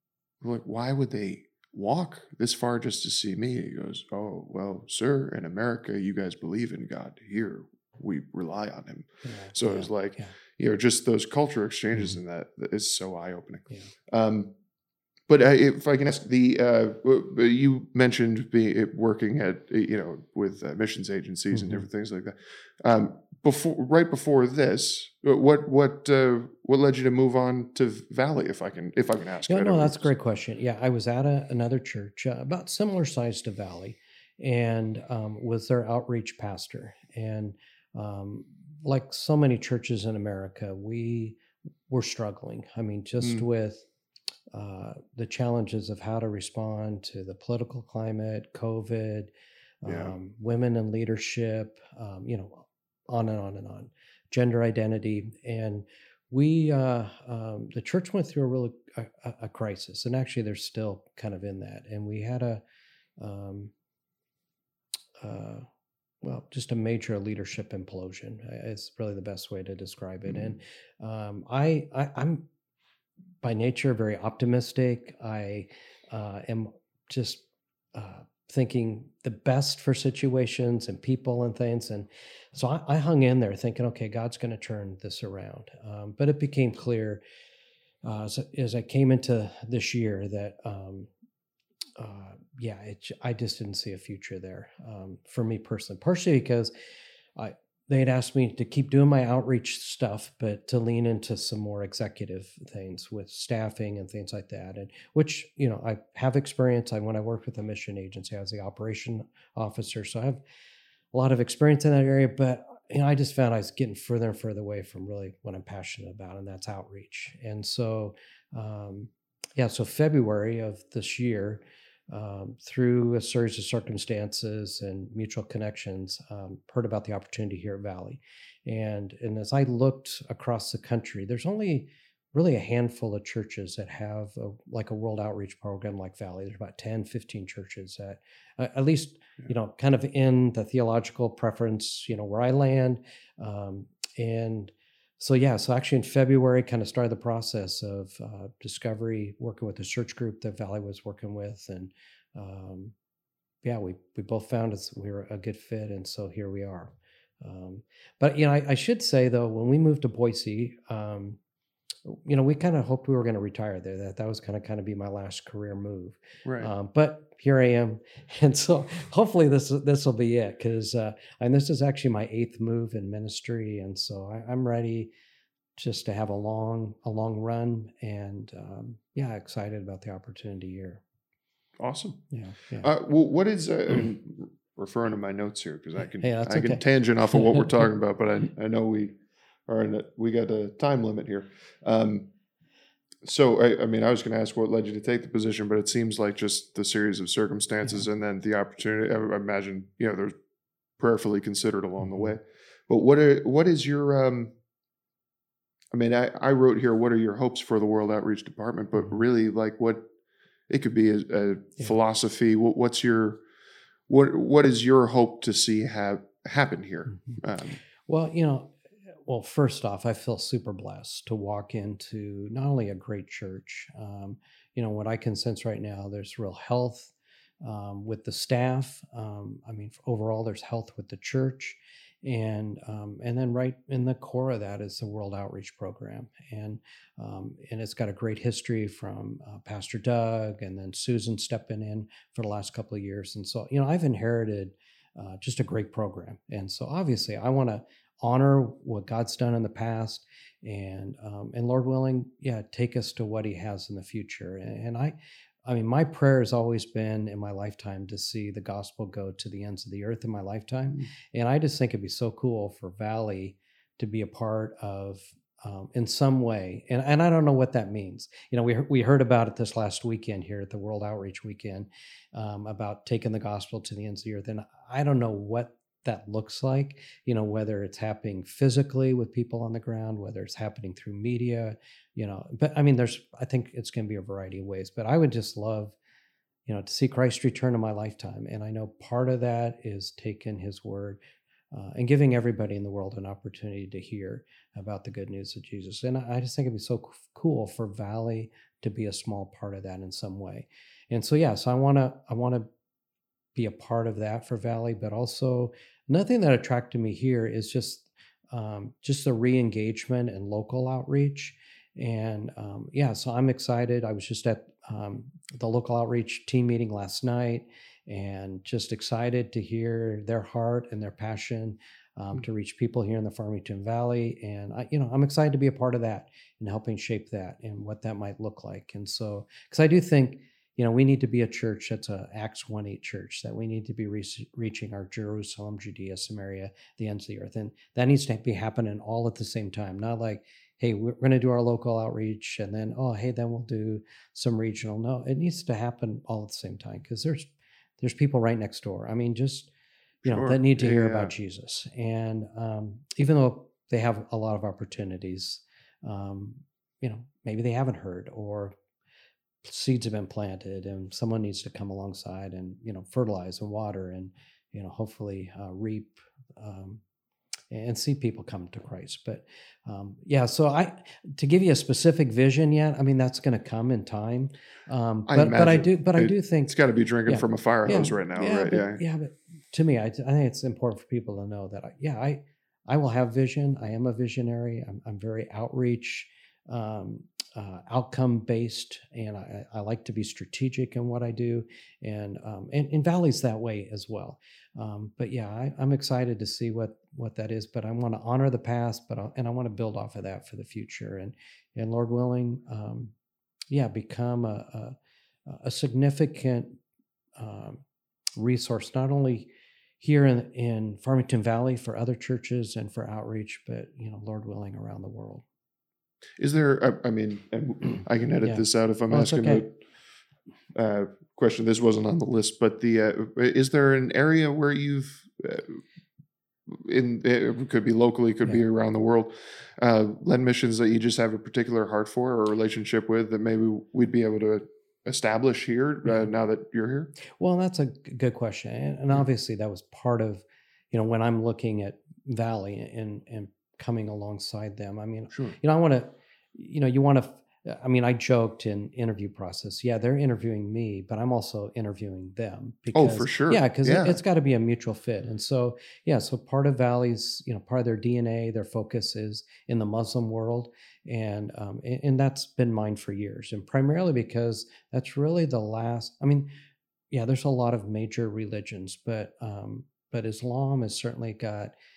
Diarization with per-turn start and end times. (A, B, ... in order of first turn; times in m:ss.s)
0:00.4-0:14.5 A
0:09.2-0:10.3 B
0:15.3-0:30.1 A
0:21.5-0:21.8 B
0:29.5-0:43.8 B
0:44.5-0:49.3 B
0:49.8-1:02.6 B
0:49.8-0:50.1 A
1:03.2-1:03.7 B
1:05.2-1:05.6 B
1:06.2-1:12.4 B
1:13.4-1:17.4 B
1:17.9-1:27.2 B
1:28.0-1:31.1 B
1:32.0-1:36.7 B
1:37.4-1:50.4 B
1:51.1-2:32.9 B
2:33.6-2:41.4 B
2:42.1-2:55.1 B
2:46.4-2:46.7 A
2:55.8-3:01.0 B
3:01.8-3:02.2 A
3:02.3-3:02.9 B
3:02.8-3:09.2 A
3:06.2-3:06.8 B
3:09.7-3:12.3 A
3:13.2-3:20.3 A
3:21.0-3:24.5 A
3:25.9-3:30.0 A
3:30.7-3:33.4 A
3:34.1-3:37.8 A
3:38.0-4:46.0 B
4:46.6-4:51.2 B
4:51.7-5:02.7 B
5:03.5-5:49.7 B
5:50.2-5:58.7 B
5:50.2-5:51.3 A
5:59.6-6:07.0 B
6:07.7-6:16.7 B
6:15.3-6:19.0 A
6:17.2-6:43.1 B
6:43.7-6:44.9 B
6:45.5-6:46.8 B
6:47.4-6:47.8 B
6:48.4-6:49.5 B
6:50.0-6:55.4 B
6:56.4-6:59.8 A
6:58.4-6:59.6 B
7:00.7-7:05.8 A
7:06.7-7:17.1 A
7:17.3-7:46.5 B
7:32.9-7:34.2 A
7:47.1-7:51.7 B